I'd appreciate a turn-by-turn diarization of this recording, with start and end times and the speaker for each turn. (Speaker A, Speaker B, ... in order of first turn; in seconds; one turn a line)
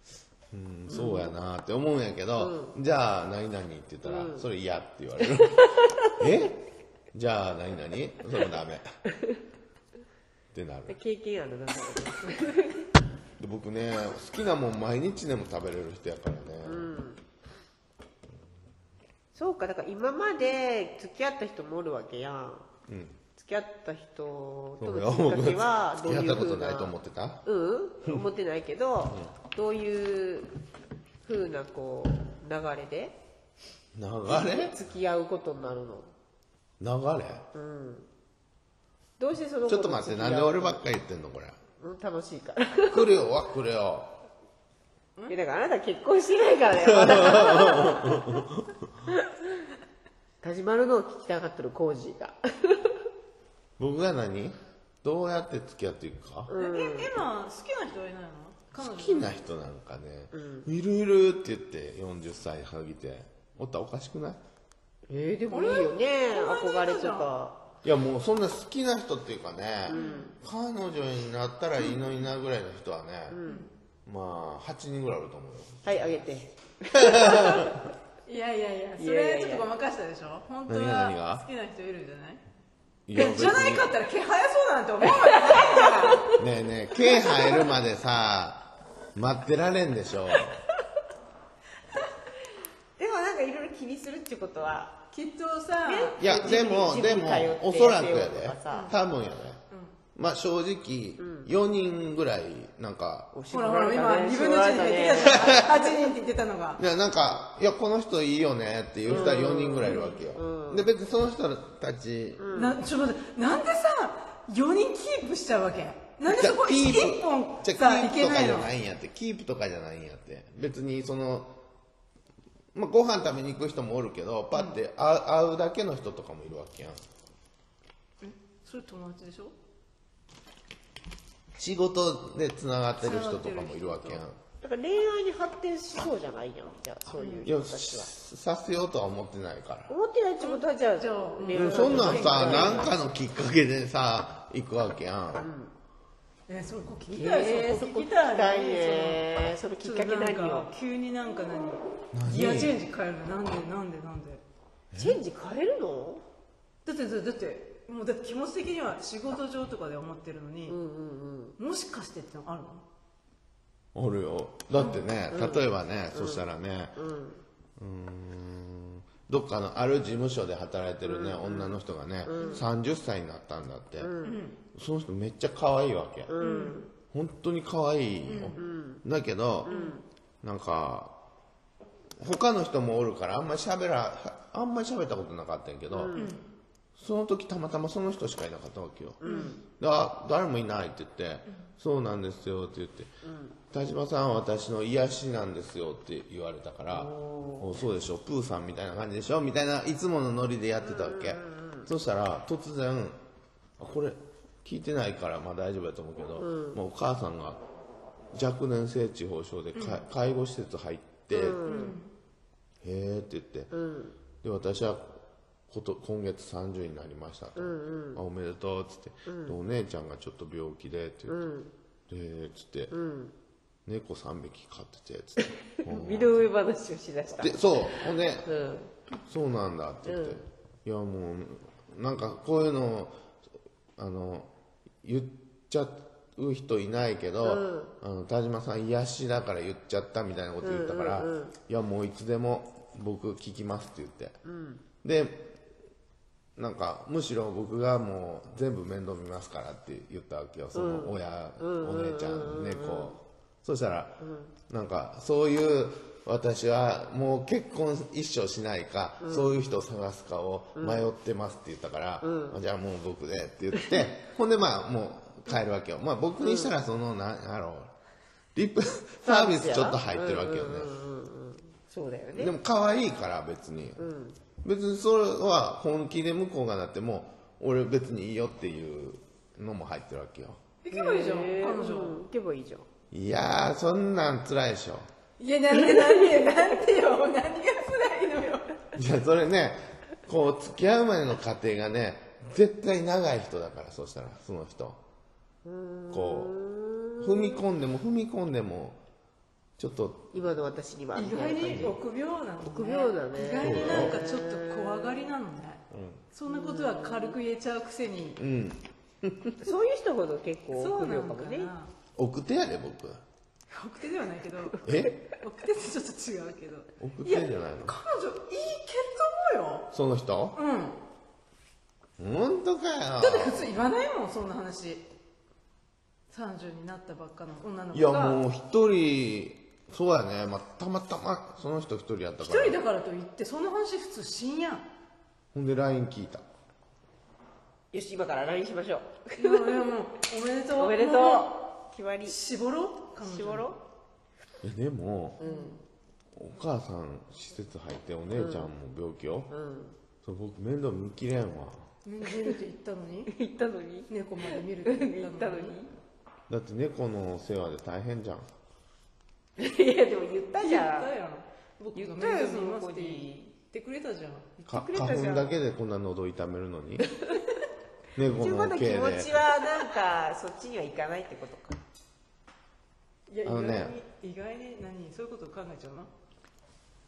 Speaker A: 0.5-6.6
Speaker B: 0.9-1.3
Speaker B: 2.4-2.8
Speaker B: 4.0-4.5
Speaker A: 7.1-8.9
Speaker A: 10.5-11.0
Speaker B: 10.9-12.9
Speaker A: 13.4-16.9
Speaker B: 16.6-17.2
Speaker B: 19.3-22.7
Speaker A: 22.9-23.2
Speaker B: 23.4-30.5
Speaker A: 24.8-27.4
Speaker B: 31.2-33.2
Speaker A: 34.0-34.8
Speaker B: 34.3-36.1
Speaker A: 36.8-37.5
Speaker B: 37.5-38.1
Speaker B: 39.2-40.9
Speaker A: 39.7-41.6
Speaker B: 41.8-43.2
Speaker A: 42.9-44.2
Speaker B: 45.3-48.4
Speaker A: 46.9-48.8
Speaker B: 49.1-49.4
Speaker B: 50.4-53.0
Speaker A: 53.8-56.5
Speaker B: 56.5-57.1
Speaker C: 56.6-59.4
Speaker A: 58.8-64.4
Speaker B: 60.3-60.7
Speaker B: 65.1-67.7
Speaker C: 65.5-67.3
Speaker A: 67.8-73.4
Speaker B: 69.9-70.3
Speaker C: 69.9-70.3
Speaker B: 73.3-73.7
Speaker C: 73.5-73.7
Speaker A: 74.1-75.9
Speaker B: 75.8-77.8
Speaker A: 76.9-77.7
Speaker C: 78.2-82.4
Speaker B: 79.0-79.7
Speaker A: 80.7-81.5
Speaker A: 83.1-83.9
Speaker C: 83.1-86.3
Speaker B: 85.7-86.3
Speaker A: 86.3-90.6
Speaker C: 87.1-87.6
Speaker B: 93.0-95.0
Speaker C: 95.1-96.6
Speaker B: 95.8-98.9
Speaker A: 96.2-99.6
Speaker C: 98.7-99.0
Speaker C: 99.7-99.9
Speaker A: 100.2-103.3
Speaker B: 101.2-101.5
Speaker B: 103.3-105.9
Speaker C: 103.5-106.8
Speaker A: 105.3-105.7
Speaker A: 106.8-112.5
Speaker C: 109.1-110.2
Speaker B: 109.1-110.9
Speaker B: 112.4-112.8
Speaker C: 112.5-118.7
Speaker A: 116.3-121.6
Speaker A: 122.7-127.0
Speaker C: 124.5-124.8
Speaker C: 128.2-129.5
Speaker A: 131.6-134.4
Speaker C: 133.0-134.2
Speaker B: 134.6-138.1
Speaker C: 137.2-137.5
Speaker A: 137.4-139.9
Speaker B: 139.9-143.1
Speaker C: 140.4-142.9
Speaker A: 141.5-145.5
Speaker B: 145.4-145.7
Speaker C: 146.5-149.2
Speaker B: 147.1-150.7
Speaker C: 149.8-154.4
Speaker A: 152.1-152.8
Speaker A: 154.9-155.2
Speaker B: 154.9-156.2
Speaker C: 156.8-160.8
Speaker B: 160.7-161.6
Speaker C: 161.6-162.8
Speaker A: 163.9-167.0
Speaker B: 165.3-167.4
Speaker A: 167.8-174.1
Speaker B: 171.1-172.7
Speaker B: 174.0-174.4
Speaker C: 174.2-174.6
Speaker A: 174.7-176.3
Speaker B: 176.3-176.9
Speaker C: 176.4-176.8
Speaker A: 177.1-179.7
Speaker C: 178.3-178.6
Speaker B: 178.5-179.1
Speaker B: 179.6-180.1
Speaker C: 179.7-180.0
Speaker A: 180.4-181.2
Speaker A: 182.2-186.2
Speaker B: 185.9-186.3
Speaker C: 186.1-186.4
Speaker A: 187.0-193.1
Speaker B: 189.2-189.6
Speaker C: 189.2-189.6
Speaker B: 193.2-193.6
Speaker A: 193.7-203.2
Speaker B: 196.9-197.8
Speaker B: 200.8-201.9
Speaker A: 203.8-207.6
Speaker B: 206.4-206.8
Speaker A: 208.3-211.7
Speaker C: 209.8-210.0
Speaker B: 211.3-212.0
Speaker C: 211.6-212.1
Speaker A: 212.8-213.7
Speaker B: 213.7-214.2
Speaker A: 214.4-221.4
Speaker B: 217.6-218.2
Speaker B: 219.2-219.6
Speaker B: 221.3-221.7
Speaker A: 222.1-222.9
Speaker B: 222.9-223.3
Speaker A: 223.9-226.5
Speaker B: 225.4-228.9
Speaker A: 227.3-228.5
Speaker A: 229.3-233.2
Speaker B: 230.1-230.4
Speaker A: 234.0-234.5
Speaker A: 235.0-244.4
Speaker B: 237.4-237.9
Speaker B: 240.6-241.5
Speaker B: 244.4-244.8
Speaker A: 245.0-245.6
Speaker A: 246.6-267.9
Speaker B: 250.7-253.2
Speaker B: 254.2-254.5
Speaker B: 259.2-259.6
Speaker B: 260.8-261.1
Speaker B: 262.2-262.6
Speaker B: 266.4-266.7
Speaker A: 268.6-270.9
Speaker B: 269.2-272.6
Speaker A: 272.4-274.0
Speaker B: 274.0-274.4
Speaker A: 274.6-280.6
Speaker C: 280.8-282.2
Speaker B: 280.9-282.9
Speaker A: 283.1-285.1
Speaker C: 285.4-288.7
Speaker B: 285.7-286.7
Speaker A: 288.9-295.0
Speaker B: 295.6-297.6
Speaker A: 296.1-296.5
Speaker A: 297.2-299.0
Speaker A: 299.8-300.5
Speaker B: 300.3-302.0
Speaker C: 301.1-308.4
Speaker B: 302.6-305.2
Speaker A: 303.6-304.2
Speaker A: 305.9-306.2
Speaker B: 306.5-307.4
Speaker A: 308.4-309.7
Speaker B: 309.6-311.7
Speaker C: 310.7-311.9
Speaker A: 312.2-313.2
Speaker C: 313.7-319.9
Speaker A: 314.8-315.2
Speaker A: 317.0-318.0
Speaker A: 319.9-320.6
Speaker C: 320.5-321.0
Speaker A: 322.2-323.7
Speaker C: 323.2-325.1
Speaker C: 326.3-328.4
Speaker A: 327.9-332.8
Speaker C: 332.4-334.9
Speaker A: 335.5-336.4
Speaker B: 337.9-339.9
Speaker C: 339.4-341.6
Speaker B: 340.7-342.4
Speaker C: 342.3-343.7
Speaker B: 343.2-343.8
Speaker A: 344.6-345.4
Speaker B: 345.4-345.8
Speaker C: 345.4-345.8
Speaker A: 346.4-349.5
Speaker B: 348.3-348.7
Speaker B: 349.5-350.0
Speaker A: 350.2-351.8
Speaker C: 352.1-353.3
Speaker B: 353.3-355.9
Speaker C: 354.1-355.8
Speaker A: 356.5-358.5
Speaker B: 359.6-361.1
Speaker C: 360.5-364.8
Speaker B: 361.9-363.6
Speaker B: 364.7-365.6
Speaker A: 364.7-367.1
Speaker A: 368.1-369.4
Speaker B: 368.3-371.8
Speaker C: 373.3-376.1
Speaker A: 373.4-373.9